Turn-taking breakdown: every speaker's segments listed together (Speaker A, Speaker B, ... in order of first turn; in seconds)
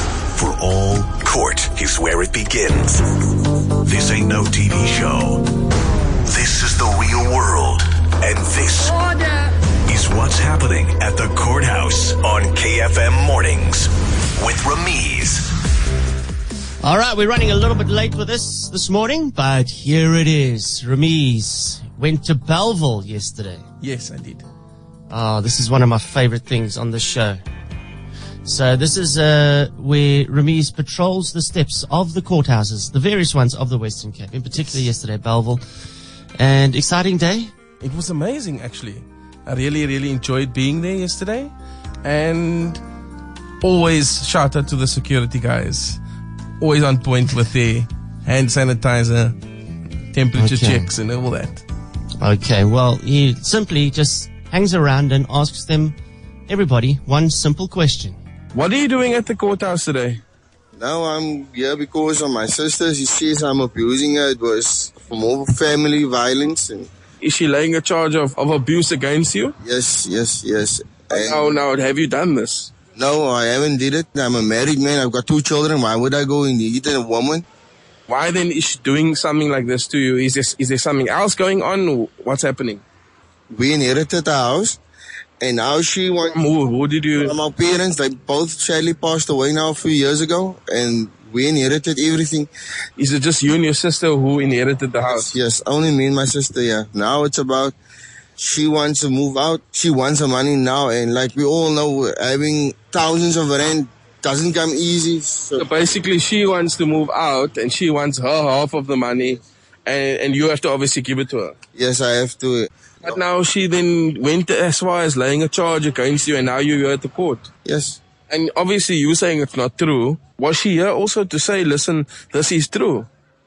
Speaker A: 0.3-3.0, 3.8-5.4, 6.3-9.0, 9.8-15.5
Speaker B: 16.8-23.6, 25.1-27.4, 28.4-35.6, 36.4-37.5, 50.3-50.9, 52.2-56.0, 56.5-58.2
Speaker C: 23.8-24.4, 37.8-41.5, 42.0-42.8, 43.6-46.0, 46.6-49.4, 50.1-51.6, 58.5-60.2, 67.2-69.5, 71.1-72.7, 78.1-82.8, 86.3-87.3, 93.0-95.3, 105.6-111.5, 113.0-117.5, 118.3-123.1
Speaker D: 60.8-66.9, 69.6-71.5, 72.9-77.4, 83.5-84.8, 85.4-86.4, 87.2-92.5, 95.0-97.8, 98.4-105.7, 111.7-113.2, 117.6-118.0